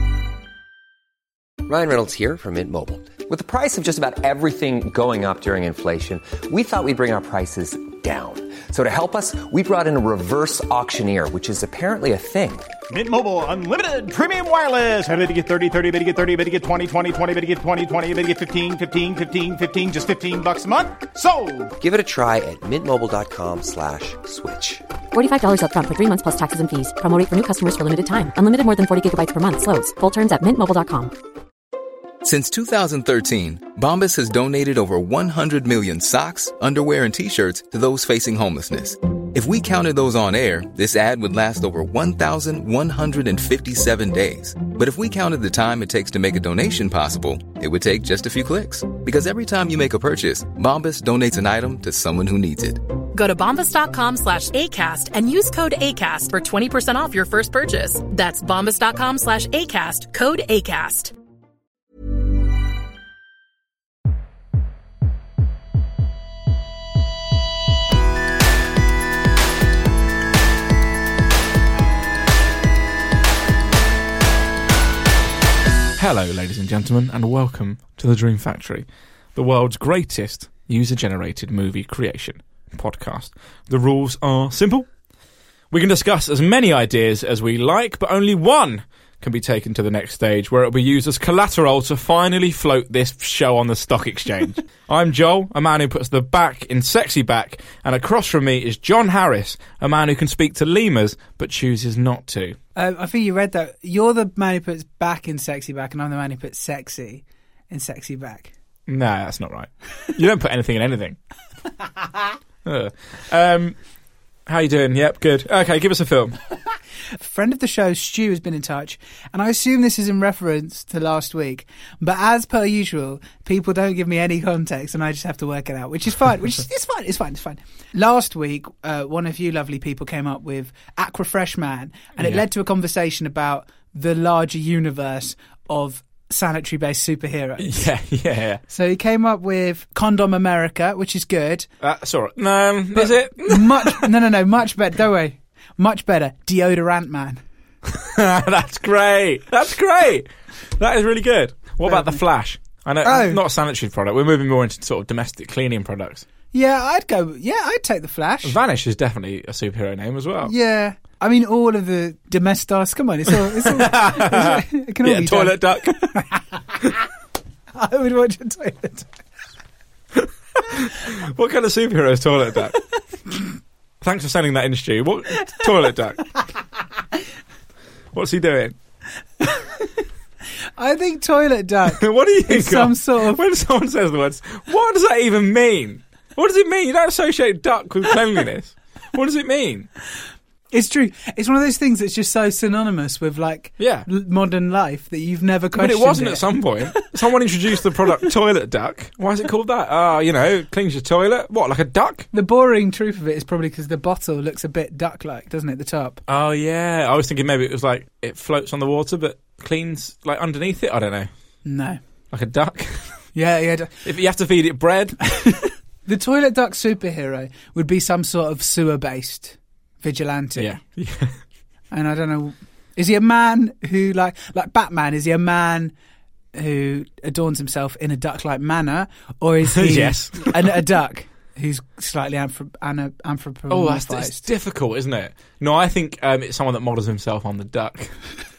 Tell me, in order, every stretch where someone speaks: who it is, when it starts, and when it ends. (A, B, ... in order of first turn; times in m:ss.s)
0:01.6-0:12.7 A
0:12.9-0:21.8 B
0:21.8-0:24.8 A
0:25.1-0:31.1 C
0:32.2-0:52.8 D
0:53.1-1:01.1 E
1:16.0-1:24.9 F
1:25.7-1:42.6 F
1:42.8-1:48.5 G
1:48.9-1:51.2 F
1:52.6-1:53.8 F
1:54.5-1:56.4 F
1:57.2-2:17.9 G
2:12.2-2:12.4 F
2:17.6-2:18.6 F
2:18.7-2:21.7 G
2:21.8-2:24.1 F
2:22.9-2:27.4 G
2:27.9-2:36.3 F
2:31.8-2:32.2 G
2:33.0-2:33.4 G
2:36.5-2:38.6 G
2:38.4-2:40.5 F
2:40.4-2:46.4 G
2:43.5-2:46.0 F
2:47.8-2:49.1 G
2:50.2-2:52.8 F
2:54.0-2:56.2 F
2:58.1-2:58.8 F
2:59.4-2:59.9 G
3:00.8-3:03.4 G
3:01.9-3:09.9 F
3:10.7-3:17.0 G
3:13.8-3:14.1 F
3:15.7-3:22.3 F
3:22.3-3:26.2 G
3:26.3-3:31.3 F
3:31.6-3:32.0 G
3:32.3-3:33.2 F
3:33.3-3:34.0 G
3:34.0-3:35.2 F
3:35.3-3:40.8 G
3:40.6-3:41.4 F
3:41.9-3:45.9 G
3:46.5-3:54.4 G
3:49.7-3:50.8 F
3:53.7-3:58.2 F